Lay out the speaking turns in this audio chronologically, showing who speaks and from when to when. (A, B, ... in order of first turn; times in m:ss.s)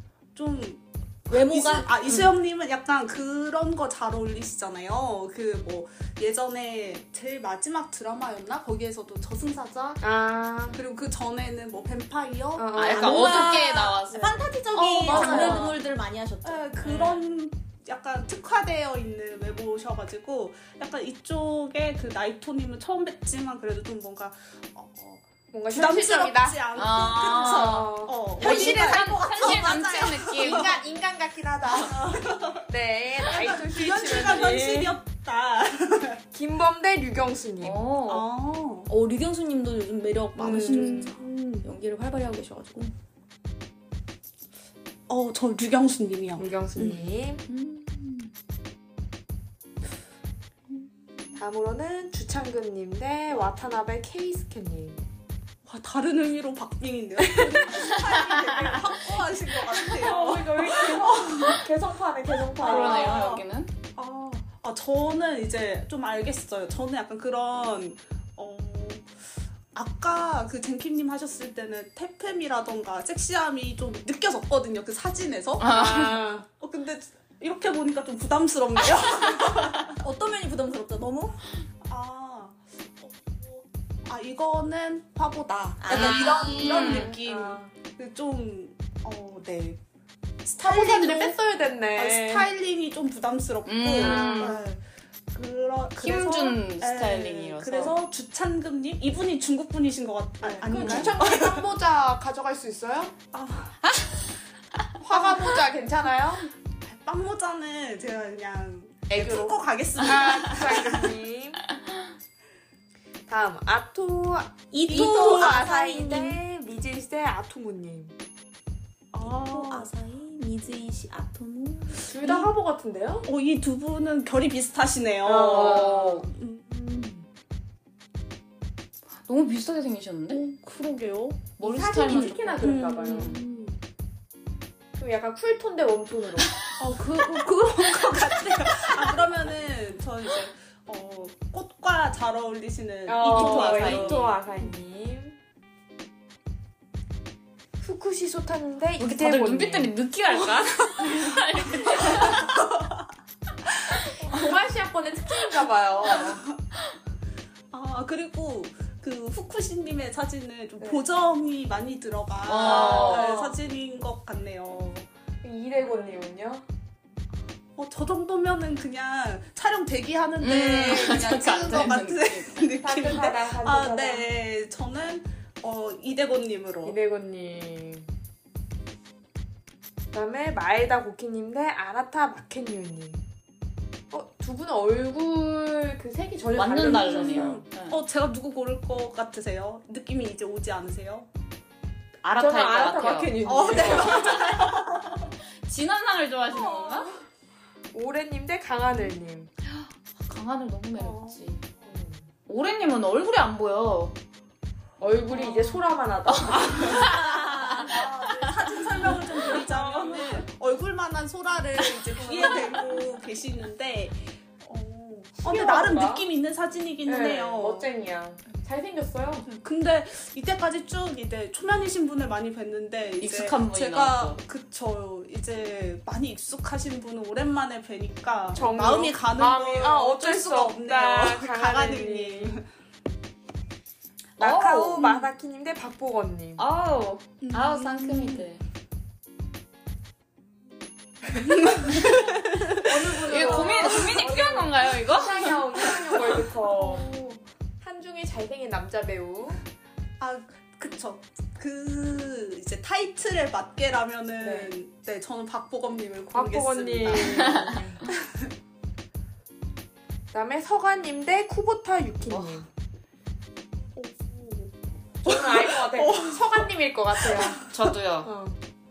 0:00.4-0:10.0 A
0:01.3-0:02.3 B
0:10.0-0:10.8 C
0:10.7-0:13.5 A
0:12.6-0:13.7 C
0:12.8-0:15.7 D
0:12.8-0:17.2 B
0:14.7-0:15.8 A
0:15.1-0:15.6 C
0:16.4-0:32.6 A
0:25.5-0:26.6 C
0:26.8-0:30.8 D
0:27.4-0:29.0 C
0:28.4-0:30.0 B
0:30.5-0:32.0 C
0:32.6-0:35.0 C
0:33.2-0:36.2 A
0:36.3-0:37.8 C
0:37.6-0:38.3 D
0:38.1-0:38.9 A
0:38.9-0:42.9 B
0:40.4-0:41.1 C
0:40.4-0:41.7 A
0:45.1-0:47.1 A
0:46.4-0:47.4 C
0:47.5-0:47.9 B
0:51.4-0:55.0 C
0:55.7-1:01.6 A
0:57.3-0:57.9 C
0:59.8-1:03.3 C
1:02.6-1:03.4 A
1:02.6-1:03.7 D
1:04.0-1:09.1 A
1:09.7-1:15.7 A
1:15.6-1:16.3 D
1:15.6-1:16.5 C
1:16.5-1:20.0 A
1:20.0-1:21.4 B
1:21.8-1:29.8 A
1:25.8-1:26.8 B
1:25.9-1:27.1 D
1:26.6-1:27.7 C
1:30.4-1:31.4 A
1:30.6-1:32.5 C
1:32.0-1:41.7 A
1:33.7-1:34.6 D
1:34.0-1:34.6 C
1:36.0-1:38.0 D
1:40.4-1:43.2 C
1:43.3-1:43.8 A
1:45.0-1:46.4 C
1:46.8-1:51.2 A
1:49.1-1:49.4 D
1:49.1-1:51.6 C
1:53.3-1:58.2 C
1:54.7-1:56.4 B
1:54.9-1:55.6 A
1:59.1-1:59.9 A
1:59.2-2:02.1 B
2:02.1-2:03.3 C
2:03.2-2:07.3 A
2:05.2-2:06.3 C
2:05.5-2:06.2 D
2:09.3-2:10.4 D
2:10.4-2:11.5 A
2:11.6-2:13.4 D
2:11.6-2:13.3 C
2:12.1-2:13.8 A
2:15.0-2:16.5 C
2:16.8-2:24.7 A
2:23.1-2:25.4 C
2:23.2-2:24.3 D
2:27.8-2:29.9 C
2:29.0-2:32.5 D
2:32.1-2:32.6 A
2:34.2-2:36.4 C
2:34.2-2:34.5 A
2:37.7-2:45.1 A
2:42.5-2:43.4 D
2:42.6-2:43.6 C
2:45.4-2:46.6 C
2:47.8-2:57.0 A
2:50.4-2:52.6 D
2:52.8-2:54.3 C
2:56.8-2:58.1 C
3:00.1-3:03.2 C
3:04.1-3:07.7 C
3:06.5-3:08.0 D
3:06.9-3:11.3 A
3:12.2-3:14.7 D
3:12.4-3:14.5 C
3:13.4-3:15.2 A
3:15.7-3:17.1 D
3:16.6-3:17.1 A
3:17.9-3:19.5 C
3:19.6-3:21.6 D
3:21.0-3:21.4 A
3:21.8-3:22.2 C
3:22.5-3:24.2 D
3:25.0-3:27.2 C
3:25.3-3:25.8 A
3:26.8-3:27.9 D
3:27.8-3:37.9 A
3:29.2-3:30.4 C
3:32.2-3:32.8 C
3:35.4-3:36.2 C
3:37.1-3:39.5 C
3:39.5-3:52.7 A
3:43.2-3:44.4 D
3:48.5-3:52.6 C
3:54.4-3:55.2 D
3:54.4-3:56.6 C
3:56.6-3:58.6 D
3:57.4-3:58.5 A
4:01.4-4:04.1 A
4:02.7-4:07.3 C
4:03.2-4:05.6 D
4:06.0-4:07.4 A
4:07.8-4:09.6 C
4:10.2-4:18.5 A
4:14.4-4:14.7 C
4:16.3-4:18.0 C
4:20.3-4:22.7 C
4:22.3-4:22.6 D
4:24.0-4:27.7 A
4:25.2-4:27.6 C
4:27.7-4:28.3 D
4:28.2-4:28.6 C